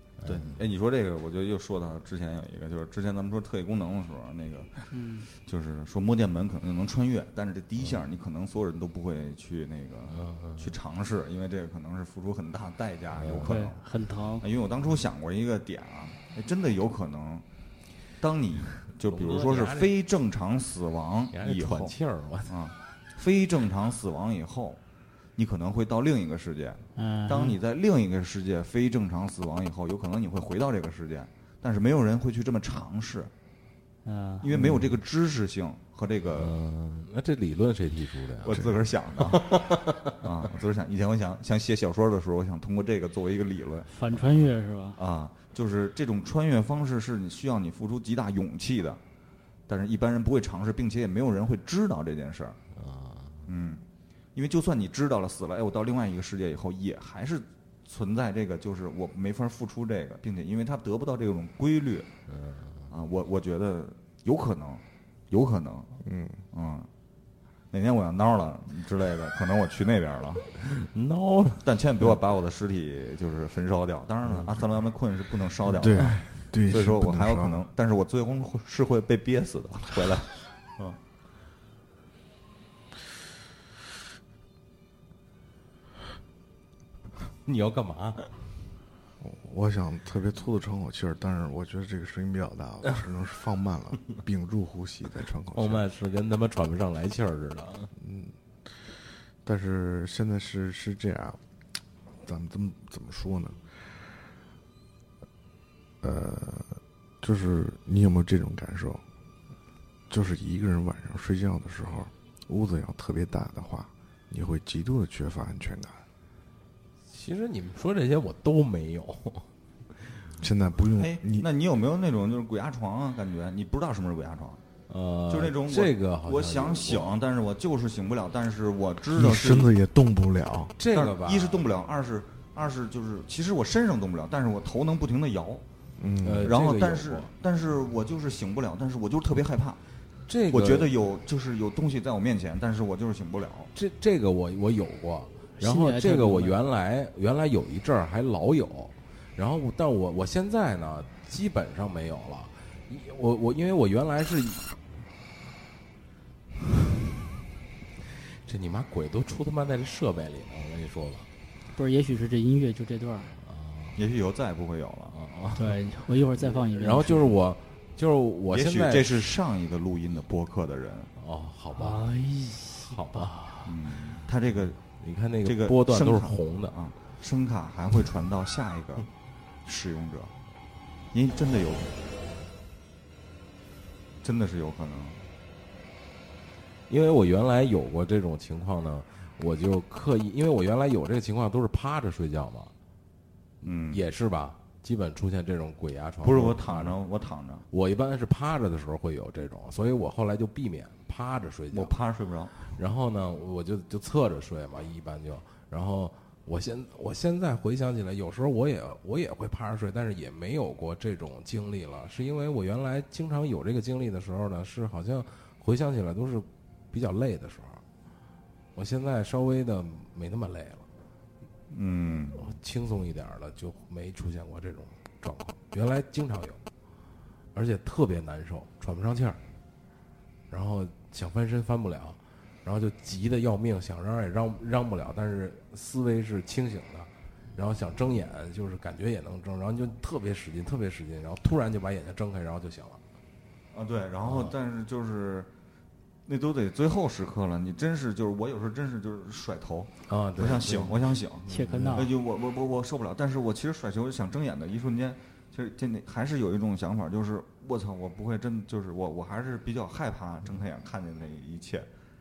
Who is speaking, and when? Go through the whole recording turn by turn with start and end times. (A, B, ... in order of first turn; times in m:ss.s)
0:00.2-0:00.6 A
0:00.2-0:13.8 B
0:04.9-0:05.3 C
0:10.1-0:10.7 A
0:13.2-0:13.6 A
0:13.4-0:14.4 C
0:14.4-0:17.4 B
0:18.2-0:21.9 B
0:19.0-0:19.9 A
0:21.3-0:22.5 A
0:22.4-0:24.8 B
0:25.4-0:33.3 B
0:27.0-0:27.6 C
0:34.0-0:34.5 C
0:34.4-0:36.5 B
0:34.5-0:34.9 D
0:36.2-0:40.2 A
0:38.4-0:43.9 B
0:43.9-0:45.0 C
0:45.0-0:49.0 B
0:49.7-0:52.6 B
0:52.7-0:53.4 A
0:53.4-0:53.8 B
0:54.3-1:02.1 B
1:02.3-1:02.9 A
1:02.9-1:06.9 B
1:06.0-1:06.4 D
1:07.7-1:10.5 B
1:10.6-1:11.6 A
1:11.6-1:21.0 B
1:15.8-1:17.6 D
1:27.3-1:28.4 A
1:29.2-1:35.8 D
1:35.5-1:37.9 A
1:38.0-1:38.8 D
1:39.4-1:41.4 D
1:42.2-1:44.3 D
1:46.0-1:49.0 D
1:50.1-1:56.0 D
1:57.1-1:59.5 A
2:00.4-2:01.5 D
2:00.9-2:04.6 B
2:04.9-2:07.2 A
2:05.3-2:09.7 B
2:09.1-2:10.7 D
2:10.8-2:11.6 A
2:10.9-2:15.6 B
2:16.0-2:16.5 D
2:16.2-2:17.3 A
2:16.4-2:19.8 B
2:20.3-2:20.9 A
2:20.5-2:23.7 B
2:23.7-2:34.7 A
2:25.6-2:26.6 C
2:38.1-2:41.3 A
2:41.7-2:43.4 C
2:43.4-2:44.0 A
2:44.0-2:45.2 B
2:45.1-2:45.8 A
2:45.6-2:47.3 C
2:46.3-2:49.2 A
2:48.5-2:51.1 B
2:51.2-2:52.1 A
2:51.7-2:53.5 C
2:52.8-2:53.7 A
2:53.6-2:54.8 B
2:55.0-2:56.7 A
2:55.4-2:59.1 B
2:59.6-3:00.3 B
3:01.1-3:01.9 B
3:04.2-3:05.2 B
3:06.9-3:12.7 A
3:13.6-3:14.0 B
3:13.6-3:17.0 A
3:16.2-3:17.7 B
3:17.7-3:21.9 A
3:21.7-3:22.7 B
3:22.6-3:37.8 A
3:38.7-3:40.9 A
3:41.7-3:42.4 B
3:42.4-3:46.6 A
3:47.5-3:49.4 A
3:50.5-4:03.0 A
4:03.7-4:05.5 B
4:04.2-4:04.5 A
4:06.2-4:21.9 B
4:10.1-4:12.1 A
4:11.5-4:12.1 C